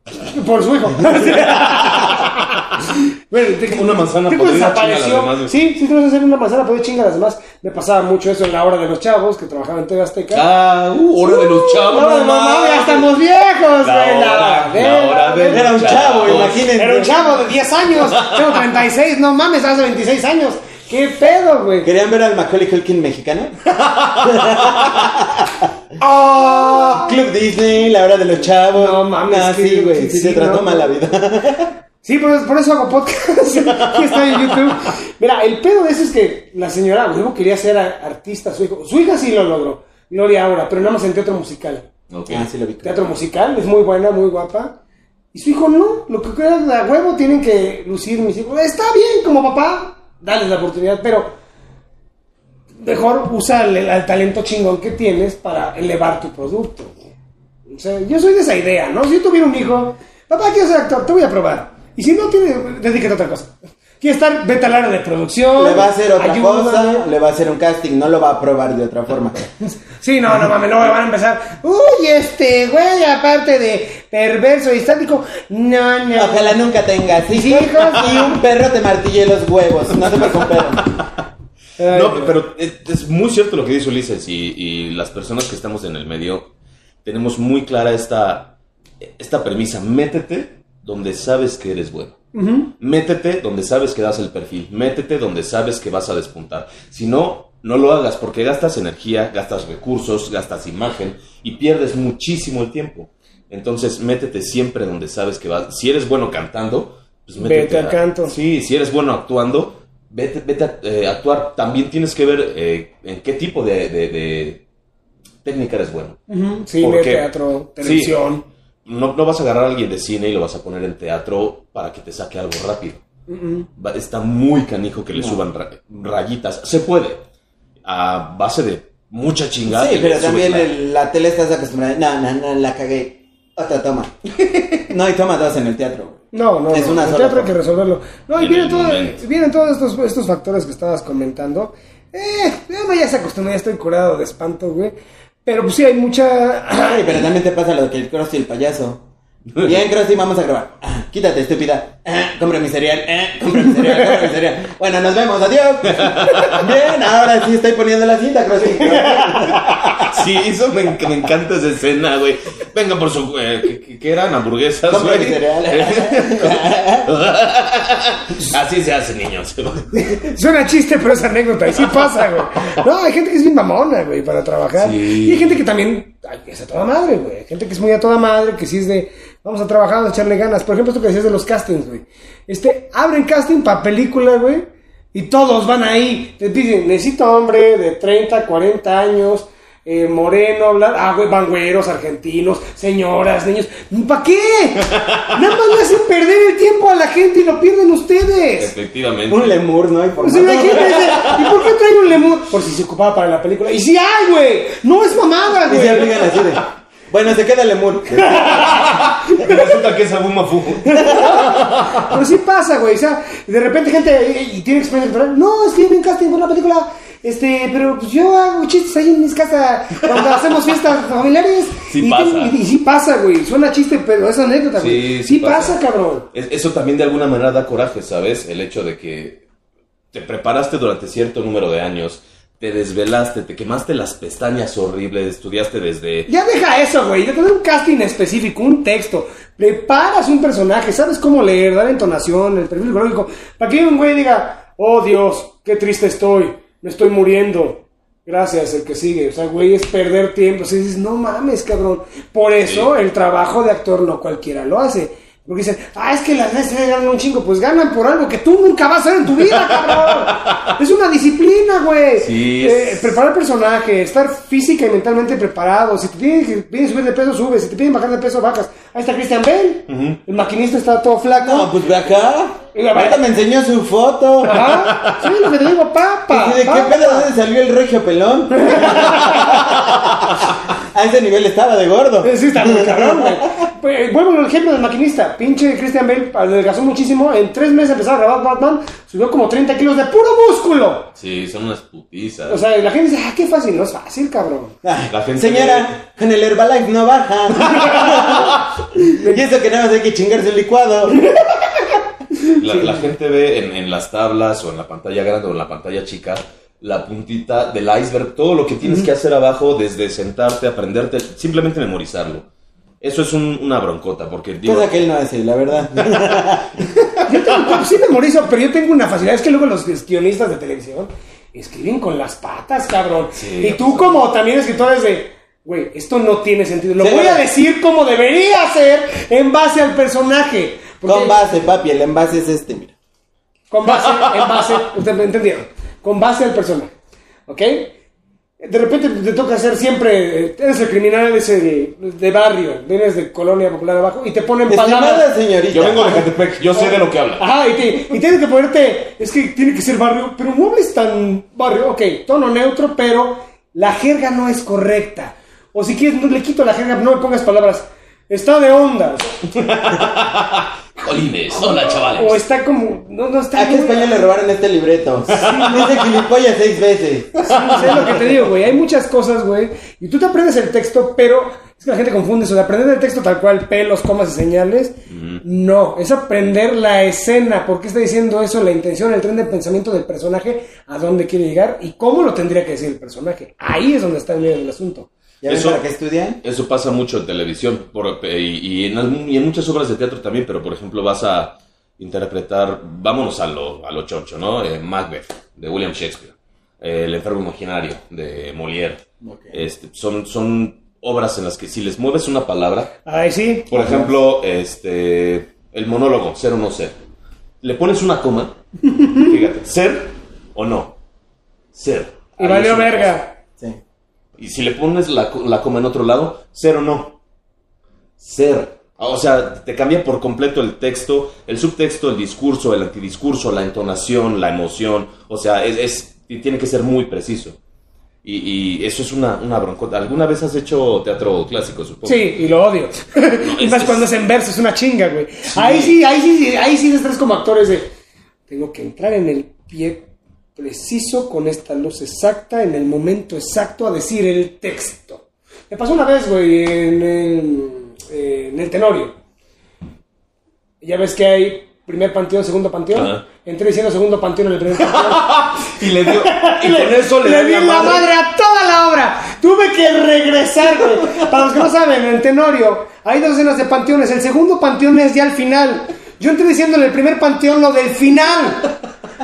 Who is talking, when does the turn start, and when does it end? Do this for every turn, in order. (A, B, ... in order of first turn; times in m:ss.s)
0:00.2-0:10.4 A
0:01.6-0:02.3 B
0:03.6-0:05.6 B
0:10.3-0:13.1 B
0:11.2-0:21.9 A
0:13.8-0:16.7 B
0:15.5-0:17.2 C
0:18.0-0:18.6 B
0:21.8-0:23.6 C
0:23.8-0:25.1 B
0:24.2-0:25.7 C
0:26.0-0:27.2 A
0:26.4-0:31.7 C
0:28.8-0:30.9 A
0:32.0-0:41.9 A
0:33.7-0:34.5 B
0:42.1-0:42.5 B
0:42.3-0:43.1 C
0:42.8-0:44.8 A
0:45.3-0:51.3 A
0:52.8-0:57.0 A
0:57.7-1:07.1 A
1:05.6-1:09.4 C
1:10.0-1:16.6 A
1:16.2-1:20.9 C
1:17.3-1:18.3 A
1:21.8-1:22.4 A
1:21.9-1:26.5 B
1:27.0-1:32.2 B
1:32.3-1:32.7 A
1:32.8-1:54.6 B
1:47.4-1:48.3 A
1:55.4-1:56.2 B
1:56.3-1:58.4 A
1:56.8-1:58.3 B
1:58.8-2:03.0 B
2:03.3-2:03.7 A
2:03.8-2:07.2 B
2:05.2-2:05.4 C
2:07.8-2:10.7 B
2:09.7-2:14.1 C
2:14.9-2:17.5 C
2:16.3-2:27.3 A
2:18.4-2:19.2 B
2:26.8-2:29.0 C
2:29.6-2:40.0 C
2:35.9-2:36.6 B
2:38.6-2:39.7 A
2:39.9-2:50.2 B
2:44.9-2:47.1 C
2:50.2-3:18.7 A
2:54.8-2:55.6 B
3:18.6-3:19.6 B
3:19.3-3:21.4 C
3:20.2-3:26.3 A
3:20.9-3:21.4 B
3:25.7-3:29.0 C
3:28.2-3:29.8 A
3:28.6-3:32.1 B
3:30.9-3:46.3 A
3:41.9-3:42.6 B
3:44.8-3:45.8 B
3:46.3-3:49.4 B
3:50.1-3:56.3 B
3:56.3-4:31.8 A
4:12.6-4:12.9 B
4:19.4-4:20.7 B
4:22.2-4:23.2 B
4:29.9-4:30.2 B
4:31.4-4:34.8 C
4:32.7-4:33.2 A
4:34.4-4:37.3 A
4:34.6-4:35.3 B
4:36.3-4:43.4 C
4:38.5-4:39.7 A
4:42.2-4:51.1 A
4:51.2-4:52.6 B
4:52.5-4:54.8 A
4:54.8-5:01.2 C
4:55.1-4:55.9 B
4:57.7-4:58.2 A
5:02.5-5:03.0 A
5:02.6-5:12.4 B
5:13.0-5:15.0 B
5:14.6-5:16.9 C
5:17.3-5:31.4 A
5:23.3-5:24.2 B
5:27.0-5:27.4 C
5:31.0-5:32.9 C
5:33.7-5:36.9 A
5:37.5-5:38.0 A
5:38.6-5:45.3 A
5:44.7-5:46.3 C
5:45.7-5:47.4 B
5:46.7-5:59.5 A
5:59.6-6:02.4 B
6:02.0-6:04.2 A
6:03.6-6:07.4 C
6:05.3-6:05.8 A
6:05.4-6:06.0 B
6:07.4-6:08.2 B
6:07.4-6:25.1 A
6:15.1-6:15.4 B
6:25.4-6:26.4 C
6:25.5-6:25.8 B
6:26.4-6:42.9 B
6:39.2-6:39.6 C
6:43.0-6:44.1 A
6:43.7-6:47.0 B
6:43.8-6:44.1 C
6:47.6-6:51.0 B
6:49.0-6:49.3 A
6:51.7-6:53.2 B
6:52.4-6:53.3 A
6:54.4-6:57.2 B
6:58.2-7:07.6 B
7:08.2-7:12.3 B
7:12.0-7:17.9 A
7:13.4-7:14.1 B
7:15.5-7:16.0 B
7:18.5-7:29.2 A
7:30.8-7:48.7 A
7:32.9-7:33.2 B
7:34.8-7:38.1 B